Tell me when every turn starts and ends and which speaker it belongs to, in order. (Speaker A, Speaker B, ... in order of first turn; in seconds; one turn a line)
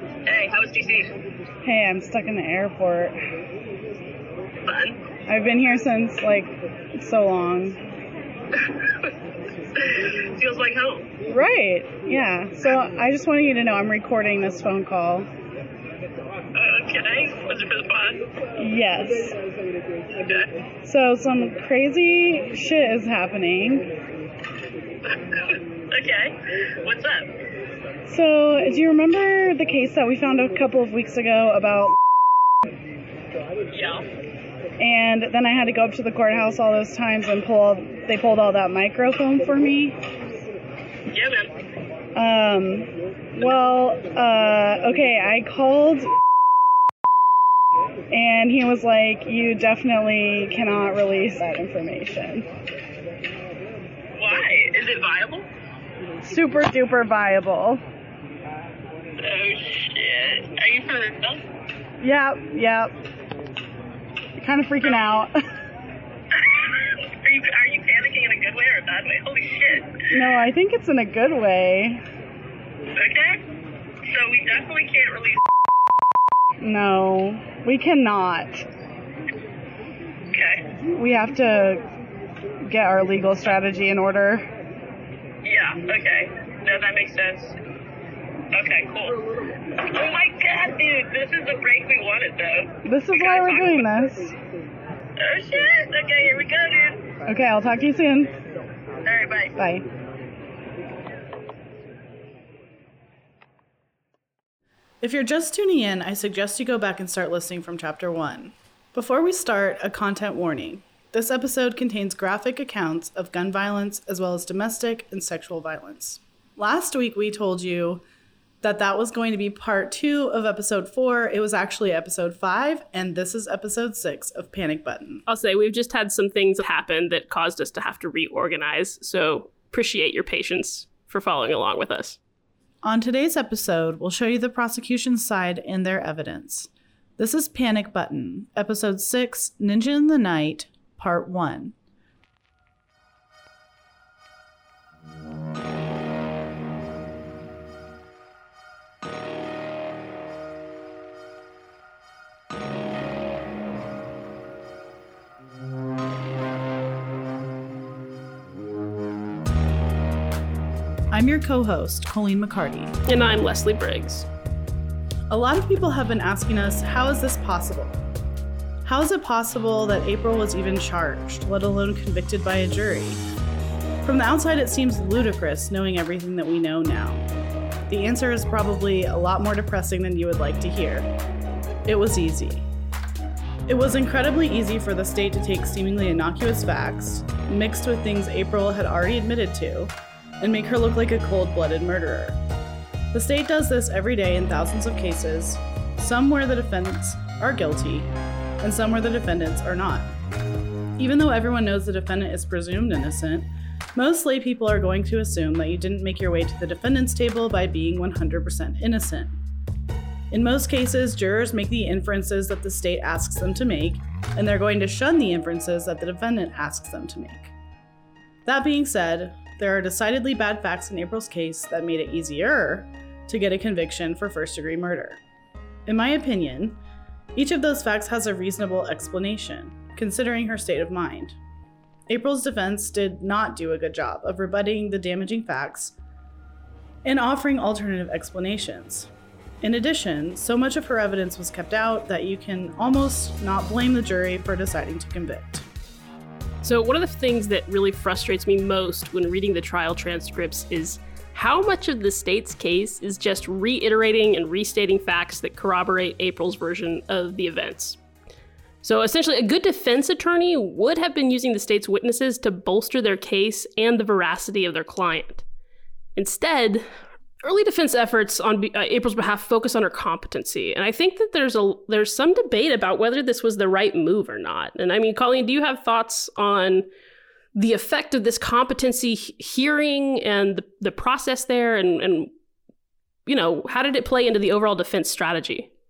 Speaker A: 0.3-1.0
Speaker B: 0.4-1.0
Speaker C: 1.6-3.1
Speaker C: 5.3-7.8
Speaker B: 10.4-11.1
Speaker C: 11.2-15.3
Speaker A: 16.6-17.4
Speaker B: 16.6-18.2
Speaker C: 18.6-19.4
Speaker C: 20.8-23.9
Speaker A: 25.9-26.3
Speaker A: 26.8-27.2
Speaker C: 28.1-32.0
Speaker C: 34.8-40.0
Speaker C: 42.1-46.1
Speaker C: 48.1-52.5
Speaker A: 54.2-55.4
Speaker C: 56.2-57.8
Speaker A: 59.2-61.4
Speaker C: 62.0-62.9
Speaker C: 64.4-65.3
Speaker A: 66.9-70.1
Speaker C: 70.1-72.0
Speaker A: 73.0-73.4
Speaker A: 74.1-75.4
Speaker C: 76.6-78.7
Speaker A: 80.3-80.6
Speaker C: 80.9-81.8
Speaker C: 82.7-84.5
Speaker A: 85.5-87.5
Speaker A: 88.5-89.2
Speaker A: 89.9-92.7
Speaker C: 92.8-94.3
Speaker A: 93.3-93.7
Speaker A: 95.2-97.0
Speaker C: 97.2-98.3
Speaker A: 99.0-99.5
Speaker C: 99.5-99.8
Speaker C: 105.0-118.0
Speaker C: 118.6-125.2
Speaker B: 125.3-132.2
Speaker C: 132.8-141.7
Speaker C: 161.1-162.9
Speaker B: 163.1-164.3
Speaker C: 165.3-168.0
Speaker C: 168.8-173.2
Speaker C: 174.0-177.2
Speaker C: 177.9-181.1
Speaker C: 181.8-182.6
Speaker C: 183.7-192.4
Speaker C: 193.1-200.1
Speaker C: 201.0-209.4
Speaker C: 210.3-217.5
Speaker C: 218.4-225.2
Speaker C: 225.8-226.8
Speaker C: 227.3-231.4
Speaker C: 232.1-235.9
Speaker C: 237.0-239.1
Speaker C: 239.6-245.7
Speaker B: 246.6-258.0
Speaker B: 258.8-265.4
Speaker B: 266.1-266.9
Speaker B: 267.4-276.9
Speaker B: 277.5-282.3
Speaker B: 283.2-285.7